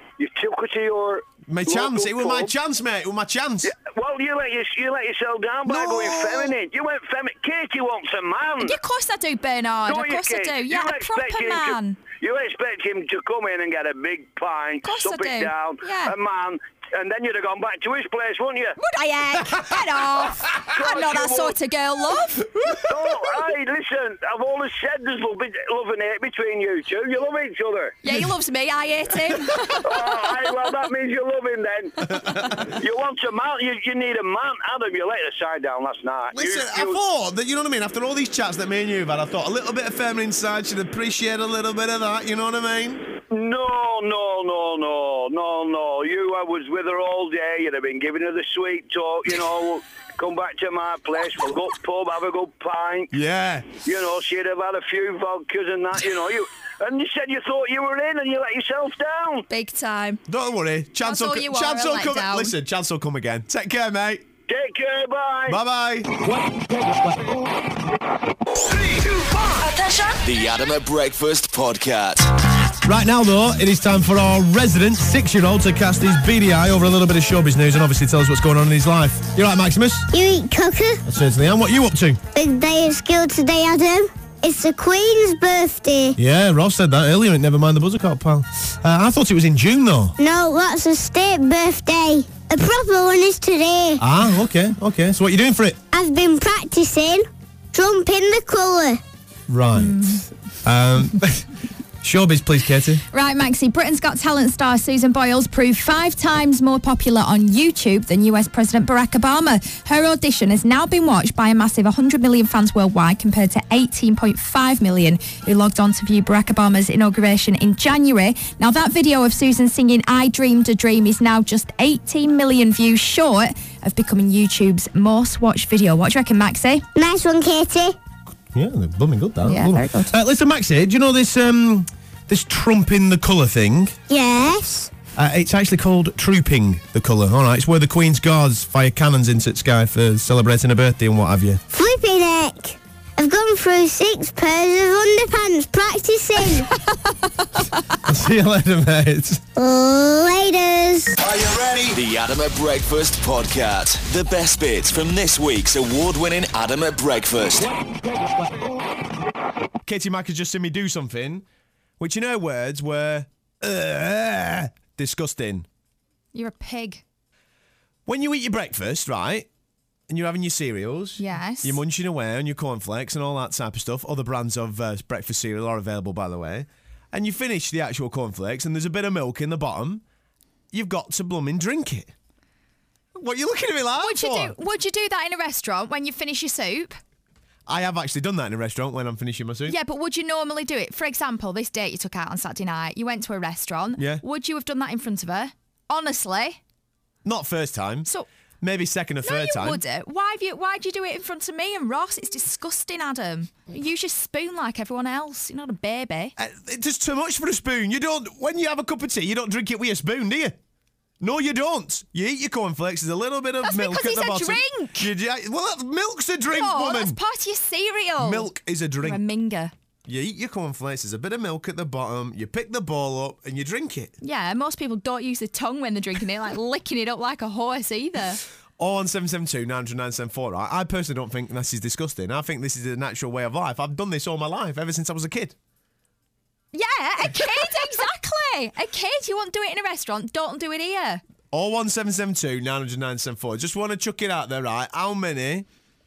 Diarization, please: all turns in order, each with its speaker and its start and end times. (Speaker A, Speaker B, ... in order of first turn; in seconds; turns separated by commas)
Speaker A: 0.2-2.5, Speaker B: 1.5-3.7, Speaker A: 3.6-8.8, Speaker B: 5.7-6.5, Speaker C: 8.6-12.0, Speaker A: 9.9-18.8, Speaker C: 14.8-16.1, Speaker C: 18.8-22.6, Speaker A: 20.6-21.6, Speaker B: 22.6-22.9, Speaker A: 22.8-28.0, Speaker C: 28.0-30.1, Speaker A: 29.8-37.0, Speaker B: 32.1-32.6, Speaker B: 36.3-43.1, Speaker A: 43.3-53.1, Speaker B: 53.1-53.7, Speaker A: 53.8-59.5, Speaker C: 59.5-60.2, Speaker B: 60.3-64.2, Speaker C: 61.0-62.5, Speaker A: 64.5-65.6, Speaker B: 65.5-66.3, Speaker D: 70.2-72.3, Speaker B: 72.8-80.1, Speaker E: 80.1-81.0, Speaker B: 81.0-82.2, Speaker E: 82.3-86.2, Speaker B: 86.2-90.2, Speaker E: 90.2-94.0, Speaker B: 94.0-95.8, Speaker E: 95.9-99.0, Speaker B: 99.5-101.5, Speaker C: 99.8-100.2, Speaker B: 102.0-103.0, Speaker C: 103.1-126.9, Speaker E: 127.0-128.0, Speaker B: 128.5-134.0, Speaker C: 129.4-130.2, Speaker E: 134.1-134.9, Speaker B: 135.2-141.6, Speaker E: 141.7-146.7, Speaker C: 146.8-147.8, Speaker B: 148.0-149.4, Speaker E: 149.6-151.2, Speaker B: 151.2-151.9, Speaker D: 151.9-157.7, Speaker B: 159.8-161.4, Speaker B: 162.0-165.7, Speaker C: 166.3-167.0, Speaker B: 168.1-169.5, Speaker B: 170.1-180.0, Speaker C: 171.2-171.8, Speaker B: 180.7-182.1, Speaker B: 183.2-184.6, Speaker C: 184.0-187.0, Speaker B: 187.7-189.8, Speaker C: 189.7-196.6, Speaker B: 194.0-194.2, Speaker B: 197.2-198.1, Speaker B: 198.6-199.8, Speaker C: 199.2-206.3, Speaker B: 206.4-210.6, Speaker B: 211.2-217.2, Speaker C: 213.6-215.1, Speaker C: 216.5-219.7, Speaker B: 218.2-219.2, Speaker B: 220.1-224.1, Speaker C: 224.2-228.4, Speaker B: 228.8-235.6, Speaker C: 236.7-241.2, Speaker B: 241.5-245.7